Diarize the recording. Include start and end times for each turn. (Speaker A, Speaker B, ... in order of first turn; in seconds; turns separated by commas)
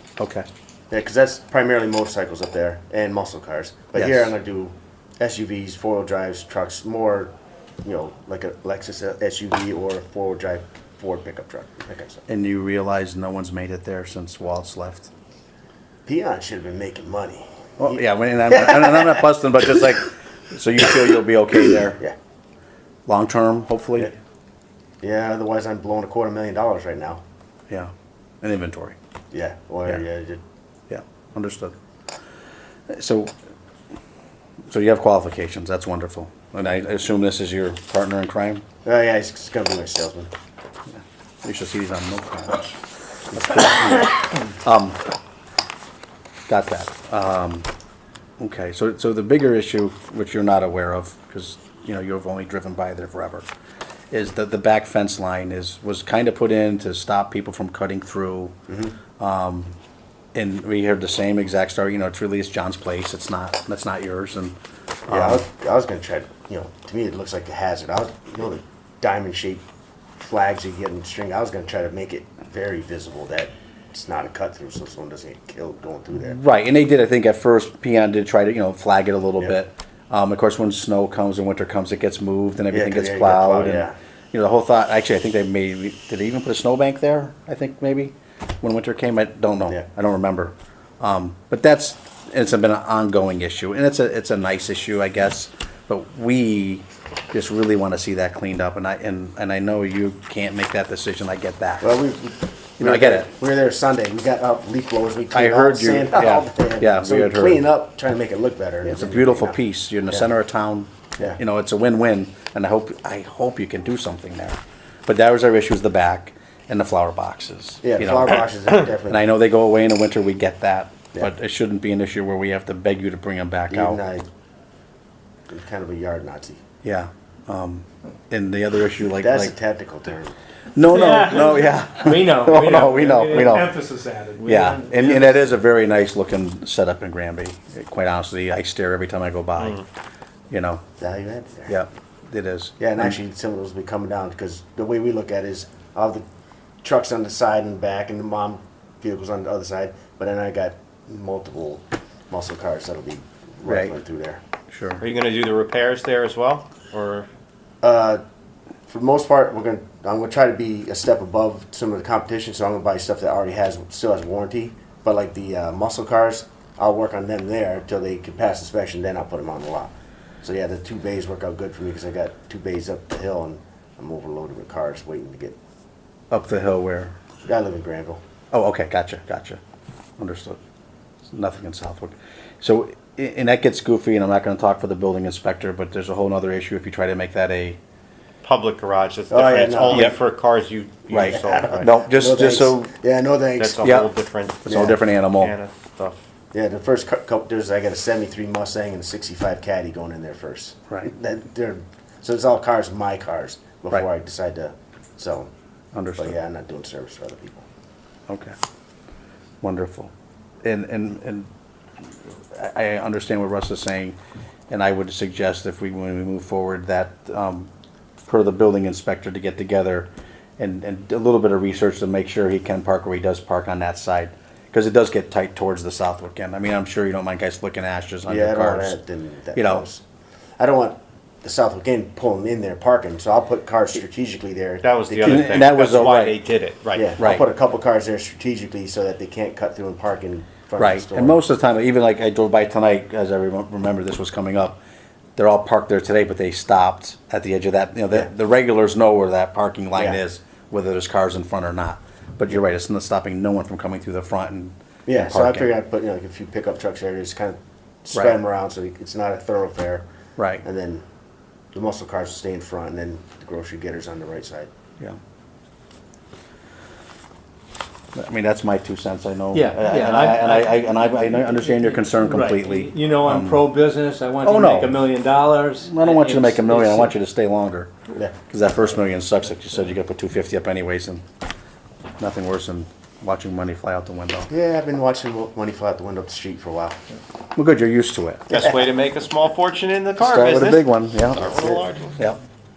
Speaker A: 0.2-0.5, Speaker B: 0.9-7.3, Speaker A: 3.9-4.3, Speaker B: 7.8-12.2, Speaker A: 12.3-15.1, Speaker B: 16.1-19.3, Speaker A: 17.8-22.0, Speaker A: 23.1-24.1, Speaker B: 25.0-27.2, Speaker A: 27.7-29.0, Speaker B: 29.3-30.4, Speaker A: 30.9-31.7, Speaker A: 32.9-33.3, Speaker A: 34.7-38.6, Speaker B: 38.8-40.3, Speaker A: 40.9-42.7, Speaker A: 43.3-45.0, Speaker A: 46.5-47.7, Speaker A: 48.4-53.5, Speaker A: 54.1-58.5, Speaker B: 58.7-59.0, Speaker A: 59.2-59.7, Speaker A: 60.3-64.5, Speaker A: 65.1-65.4, Speaker B: 65.1-69.6, Speaker B: 70.2-76.4, Speaker A: 76.2-101.9, Speaker B: 82.7-84.0, Speaker B: 101.8-110.3, Speaker A: 102.8-103.3, Speaker A: 105.3-107.7, Speaker A: 108.8-118.5, Speaker B: 117.8-119.2, Speaker A: 119.0-124.0, Speaker B: 123.7-124.2, Speaker B: 125.5-126.6, Speaker A: 126.8-129.5, Speaker B: 129.2-130.3, Speaker A: 130.7-133.8, Speaker C: 130.9-135.4, Speaker A: 134.4-139.8, Speaker D: 139.6-139.8, Speaker A: 140.5-140.8, Speaker B: 141.0-141.8, Speaker A: 141.7-143.2, Speaker B: 142.8-146.2, Speaker B: 146.8-154.4, Speaker A: 153.7-153.9, Speaker A: 154.7-155.0, Speaker D: 155.0-157.3, Speaker B: 157.8-158.2, Speaker B: 158.9-175.6, Speaker A: 176.3-177.1, Speaker B: 177.4-178.2, Speaker A: 178.5-179.6, Speaker A: 180.2-180.6, Speaker A: 181.3-187.8, Speaker D: 188.4-191.9, Speaker B: 189.3-190.1, Speaker A: 189.9-190.2, Speaker A: 191.1-192.9, Speaker B: 191.2-194.0, Speaker D: 193.6-194.7, Speaker A: 193.8-194.1, Speaker A: 194.6-195.5, Speaker B: 194.7-195.0, Speaker D: 195.3-196.2, Speaker B: 196.5-205.5, Speaker A: 205.9-206.3, Speaker B: 206.2-207.6, Speaker A: 208.3-208.5, Speaker A: 209.6-210.1, Speaker A: 210.6-211.5, Speaker A: 212.5-214.2, Speaker A: 214.7-217.7, Speaker A: 218.2-229.0, Speaker B: 228.2-230.0, Speaker A: 229.5-229.8, Speaker B: 230.6-235.7, Speaker D: 234.8-237.2, Speaker A: 235.2-236.4, Speaker B: 236.9-241.4, Speaker A: 237.2-237.5, Speaker A: 240.8-244.8, Speaker A: 245.4-255.7, Speaker B: 249.9-250.2, Speaker B: 255.1-260.0, Speaker A: 258.1-258.4, Speaker A: 260.4-260.6, Speaker B: 260.6-261.0, Speaker B: 261.7-264.7, Speaker A: 268.1-273.7, Speaker C: 269.5-277.1, Speaker A: 274.4-275.1, Speaker A: 275.8-277.9, Speaker A: 278.5-281.2, Speaker A: 282.2-284.5, Speaker B: 284.5-287.0, Speaker A: 287.6-288.6, Speaker D: 288.5-292.3, Speaker A: 290.2-291.6